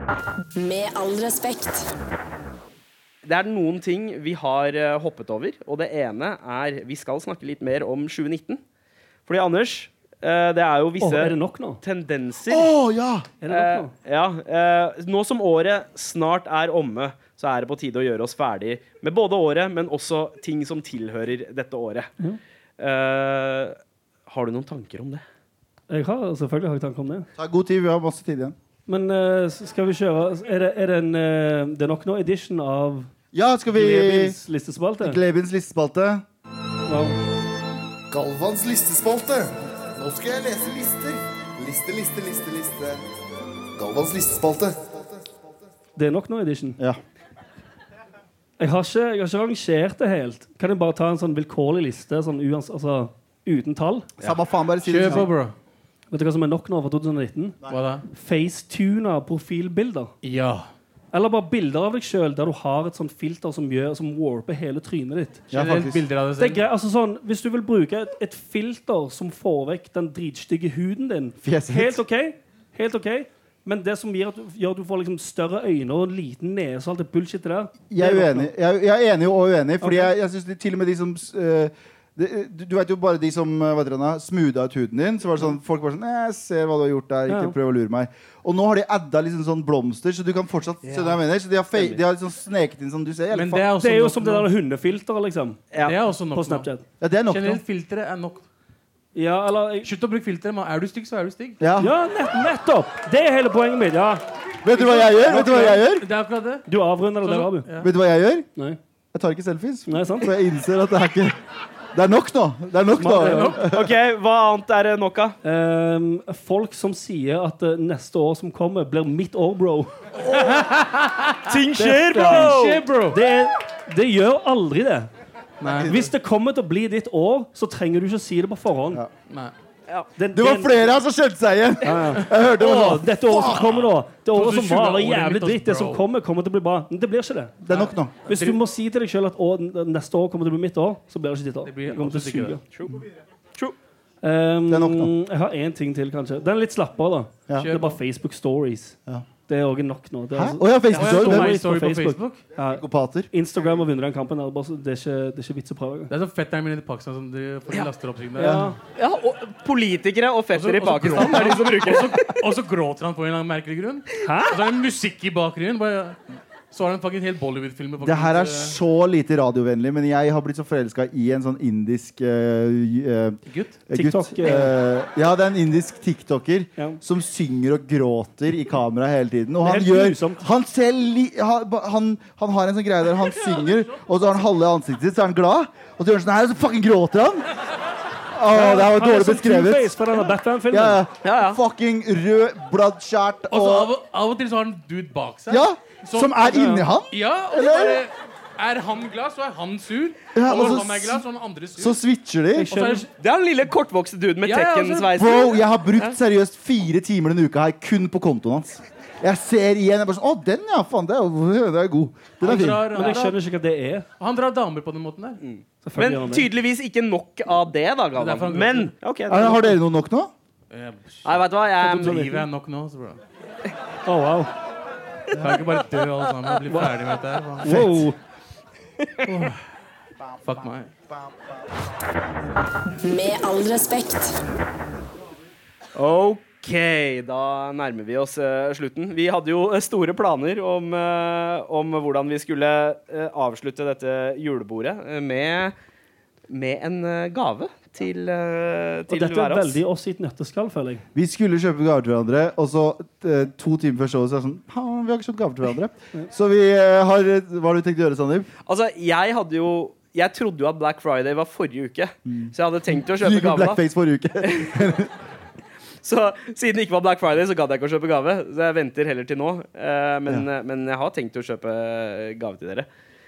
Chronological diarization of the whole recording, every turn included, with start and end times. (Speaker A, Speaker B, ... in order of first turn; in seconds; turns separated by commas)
Speaker A: 0.6-1.9, Speaker B: 3.2-8.6, Speaker B: 9.3-12.7, Speaker C: 11.0-11.8, Speaker D: 12.5-13.3, Speaker C: 13.4-13.9, Speaker B: 13.5-22.1, Speaker B: 22.8-25.2, Speaker C: 25.9-27.3, Speaker D: 27.4-28.6, Speaker C: 28.9-33.1, Speaker D: 33.3-34.4, Speaker C: 33.7-35.2, Speaker D: 35.0-36.2, Speaker C: 36.9-37.2, Speaker E: 38.1-43.1, Speaker E: 43.8-45.3, Speaker C: 46.0-46.8, Speaker C: 48.6-54.1, Speaker D: 54.2-55.3, Speaker F: 54.8-55.5, Speaker C: 56.1-57.6, Speaker F: 57.7-58.0, Speaker C: 58.1-60.1, Speaker F: 60.2-60.7, Speaker C: 61.1-65.4, Speaker D: 65.5-66.0, Speaker F: 65.5-66.6, Speaker C: 66.4-78.5, Speaker D: 71.4-72.0, Speaker D: 77.9-93.7, Speaker C: 79.8-80.1, Speaker C: 87.3-87.5, Speaker F: 93.3-94.5, Speaker C: 93.8-95.6, Speaker F: 95.8-96.7, Speaker C: 96.3-96.8, Speaker D: 97.0-97.6, Speaker F: 97.3-98.4, Speaker C: 99.1-99.9, Speaker F: 99.8-101.6, Speaker D: 101.6-101.9, Speaker C: 101.8-104.2, Speaker D: 104.6-106.0, Speaker C: 104.7-105.8, Speaker F: 105.4-106.7, Speaker C: 106.7-107.7, Speaker F: 107.2-107.9, Speaker D: 107.8-108.5, Speaker D: 109.1-111.3, Speaker C: 109.9-110.3, Speaker D: 111.9-113.9, Speaker C: 113.0-113.6, Speaker F: 113.2-113.6, Speaker B: 113.6-115.4, Speaker C: 115.4-119.9, Speaker F: 120.3-121.5, Speaker B: 121.5-122.8, Speaker C: 121.8-125.1, Speaker F: 122.2-123.2, Speaker F: 125.6-126.1, Speaker C: 125.8-129.0, Speaker C: 130.2-130.9, Speaker D: 130.3-133.8, Speaker C: 131.8-137.6, Speaker F: 134.3-136.0, Speaker D: 137.6-138.2, Speaker F: 137.7-138.6, Speaker C: 138.2-142.6, Speaker F: 141.7-142.6, Speaker B: 142.7-143.0, Speaker C: 144.2-156.1, Speaker D: 144.7-145.1, Speaker F: 147.6-148.0, Speaker D: 150.3-151.6, Speaker F: 150.9-152.4, Speaker D: 152.6-153.3, Speaker F: 156.1-158.7, Speaker C: 158.4-158.8, Speaker B: 158.9-162.4, Speaker F: 160.5-166.2, Speaker C: 164.2-164.6, Speaker F: 166.7-168.8, Speaker D: 168.0-187.5, Speaker F: 173.5-173.8, Speaker C: 173.9-174.7, Speaker C: 179.6-180.4, Speaker D: 188.3-193.9, Speaker C: 188.5-191.0, Speaker B: 191.2-191.6, Speaker F: 193.5-202.0, Speaker D: 195.5-198.0, Speaker C: 196.5-196.8, Speaker D: 200.3-201.2, Speaker D: 201.8-202.7, Speaker C: 202.5-203.1, Speaker F: 202.7-203.1, Speaker B: 203.2-206.2, Speaker F: 204.4-205.1, Speaker D: 205.2-213.0, Speaker F: 212.4-213.4, Speaker C: 212.9-214.1, Speaker F: 214.2-215.4, Speaker B: 215.4-219.8, Speaker C: 215.8-216.5, Speaker F: 218.2-218.9, Speaker D: 219.3-220.3, Speaker F: 220.7-223.2, Speaker B: 221.2-222.2, Speaker C: 221.8-222.5, Speaker C: 224.1-224.5, Speaker F: 225.4-228.1, Speaker B: 226.2-226.7, Speaker C: 227.6-228.2, Speaker F: 229.2-229.6, Speaker F: 230.4-230.9, Speaker A: 233.0-234.4, Speaker B: 235.9-245.7, Speaker B: 246.5-249.8, Speaker C: 249.1-251.0, Speaker D: 251.1-258.5, Speaker B: 258.6-263.8, Speaker D: 262.3-265.1, Speaker B: 264.4-264.9, Speaker B: 266.0-272.9